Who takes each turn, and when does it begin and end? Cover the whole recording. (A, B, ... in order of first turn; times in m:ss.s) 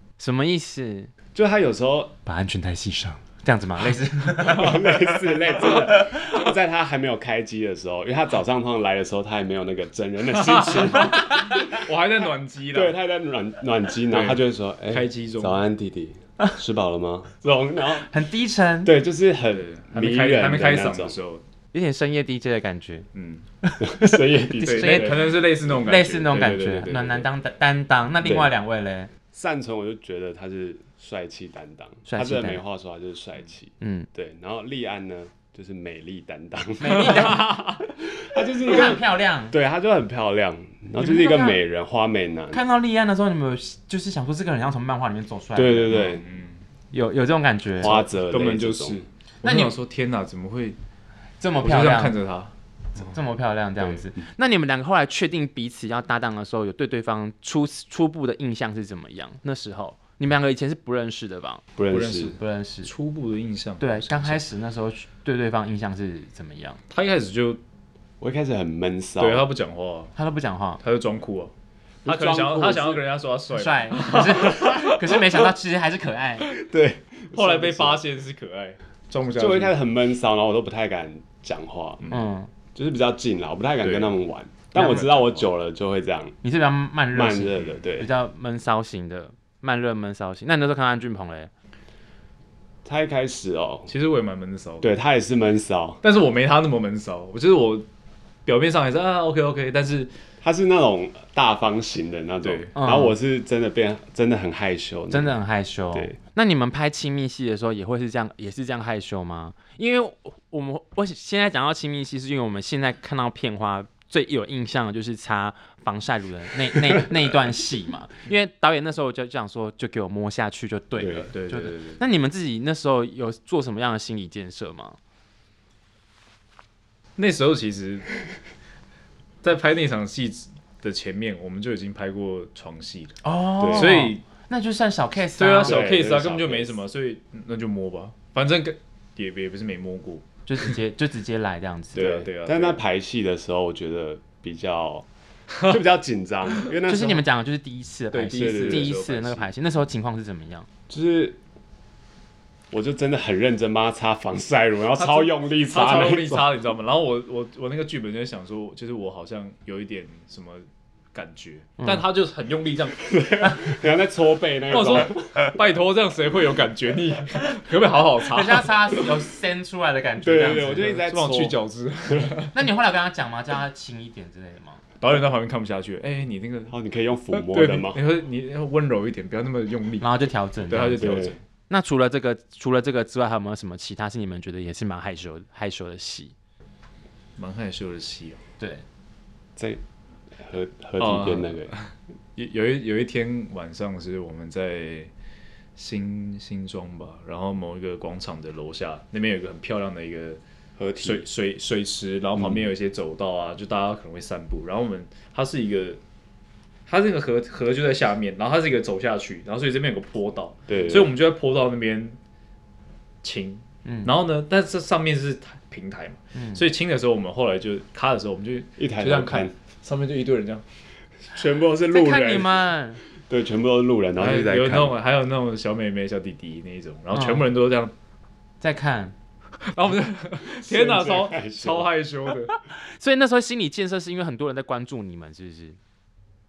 0:00.2-0:01.1 A
0:01.3-0:02.2 B
0:02.2-0:06.4 A
0:04.4-0:11.4 B
0:10.3-0:13.0 C
0:11.0-0:11.6 A
0:12.7-0:18.1 B
0:14.1-0:15.6 C
0:18.0-0:18.9 A
0:18.8-0:21.2 B
0:19.5-0:21.4 C
0:21.7-0:23.1 A
0:23.1-0:23.4 C
0:23.6-0:29.1 A
0:23.8-0:25.3 B
0:24.6-0:27.3 C
0:28.2-0:28.5 B
0:29.3-0:42.6 B
0:32.1-0:32.6 A
0:33.8-0:34.1 A
0:36.8-0:37.6 A
0:36.9-0:37.8 C
0:38.6-0:39.5 A
0:41.0-0:41.6 A
0:42.5-0:46.1 A
0:45.5-0:46.2 B
0:45.9-0:46.6 C
0:46.9-0:48.0 A
0:47.8-0:49.0 B
0:47.8-0:50.8 C
0:49.4-0:49.7 A
0:51.4-0:52.2 A
0:51.6-0:52.5 C
0:53.0-1:01.6 A
1:01.8-1:02.4 B
1:01.9-1:04.4 C
1:02.4-1:02.9 A
1:03.8-1:06.8 A
1:06.9-1:07.6 C
1:08.2-1:09.4 B
1:09.2-1:10.1 C
1:10.2-1:10.8 A
1:10.8-1:11.5 C
1:12.0-1:13.0 B
1:12.0-1:15.0 C
1:13.5-1:16.5 A
1:16.5-1:18.0 B
1:17.3-1:19.7 C
1:19.3-1:22.0 B
1:22.0-1:22.2 C
1:22.1-1:22.5 A
1:22.7-1:26.4 B
1:23.8-1:24.2 C
1:24.8-1:25.2 A
1:24.8-1:25.3 C
1:26.4-1:31.5 A
1:27.1-1:28.1 B
1:32.8-1:33.9 B
1:33.9-1:34.9 C
1:34.8-1:36.0 B
1:36.0-1:37.9 C
1:38.4-1:40.1 C
1:40.4-1:45.4 B
1:42.4-1:42.7 C
1:42.8-1:43.2 A
1:45.1-2:05.0 A
1:56.8-1:57.1 B
2:01.0-2:01.3 B
2:01.3-2:02.0 C
2:07.2-2:08.1 C
2:09.4-2:14.2 C
2:13.2-2:15.8 A
2:13.6-2:14.0 B
2:15.4-2:20.7 C
2:15.6-2:16.8 B
2:20.4-2:22.1 A
2:21.9-2:22.8 C
2:21.9-2:25.1 B
2:25.6-2:27.2 B
2:26.8-2:30.7 A
2:28.1-2:29.5 C
2:28.3-2:28.9 B
2:30.9-2:31.4 B
2:32.7-2:36.5 B
2:35.0-2:43.1 C
2:43.0-2:45.5 B
2:44.7-2:49.1 C
2:48.3-2:51.0 A
2:50.2-2:51.6 B
2:50.6-2:52.6 C
2:52.1-2:52.3 B
2:52.5-2:54.8 A
2:55.0-2:56.8 C
2:56.7-2:58.0 B
2:57.3-3:00.1 C
3:00.0-3:01.2 A
3:00.7-3:01.4 C
3:01.0-3:01.3 B
3:01.7-3:06.3 A
3:07.4-3:08.4 C
3:08.6-3:08.8 A
3:09.6-3:09.8 B
3:10.4-3:11.7 B
3:11.0-3:15.1 C
3:15.8-3:20.4 C
3:20.8-3:21.2 B
3:21.0-3:26.0 C
3:22.4-3:22.6 B
3:26.9-3:32.2 C
3:30.7-3:31.1 B
3:33.2-3:40.6 C
3:33.8-3:34.1 A
3:36.3-3:36.6 A
3:38.8-3:39.5 B
3:41.3-3:42.6 B
3:41.9-3:43.0 A
3:43.2-3:45.0 B
3:44.2-3:47.9 C
3:47.1-3:47.4 A
3:48.6-3:49.1 A
3:49.7-3:52.6 C
3:50.5-3:51.9 B
3:52.7-3:55.8 A